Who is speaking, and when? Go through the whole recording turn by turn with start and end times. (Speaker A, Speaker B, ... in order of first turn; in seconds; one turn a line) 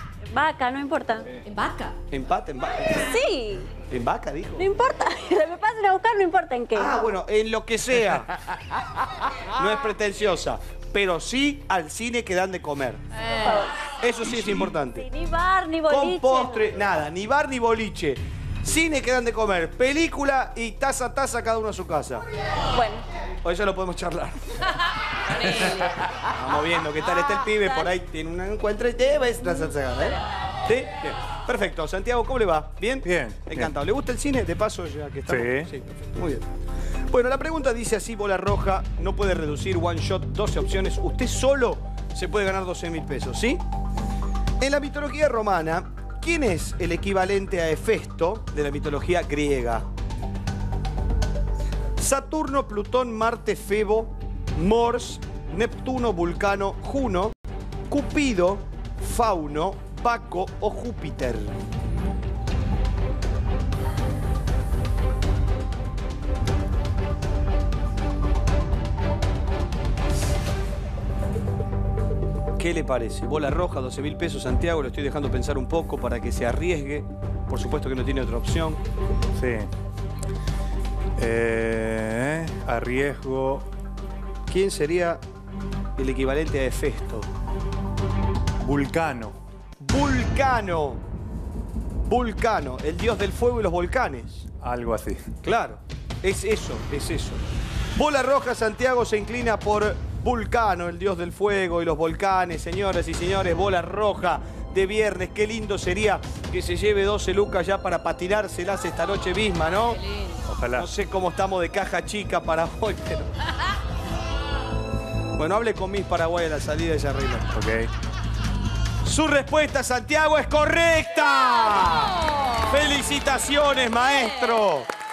Speaker A: 0.3-1.3
Speaker B: 1.4-2.0
Speaker C: 2.1-3.1
Speaker A: 3.0-3.7
Speaker C: 3.8-4.7
Speaker A: 4.6-7.0
Speaker C: 6.8-8.3
Speaker C: 9.6-13.0
Speaker B: 13.2-13.7
Speaker A: 13.4-13.7
Speaker C: 14.0-15.1
Speaker A: 14.3-16.7
Speaker C: 15.9-22.2
Speaker A: 22.7-23.0
Speaker C: 23.4-24.6
Speaker B: 25.3-26.0
Speaker C: 26.3-36.5
Speaker A: 27.1-27.9
Speaker D: 33.0-33.7
Speaker D: 35.3-35.7
Speaker C: 37.1-43.6
Speaker C: 44.6-49.9
Speaker C: 52.0-57.4
Speaker C: 57.9-61.6
Speaker C: 72.6-78.8
Speaker D: 79.3-79.7
Speaker D: 81.2-83.7
Speaker C: 84.5-85.2
Speaker C: 86.0-87.3
Speaker D: 88.6-89.3
Speaker C: 89.8-91.0
Speaker C: 92.1-94.5
Speaker D: 94.6-95.2
Speaker C: 95.4-97.4
Speaker C: 98.0-110.0
Speaker B: 109.7-110.5
Speaker D: 110.5-110.9
Speaker C: 110.7-113.3
Speaker C: 115.4-117.5
Speaker D: 117.5-117.9
Speaker C: 119.0-122.2
Speaker B: 121.2-122.9
Speaker C: 122.7-124.9
Speaker B: 124.0-124.8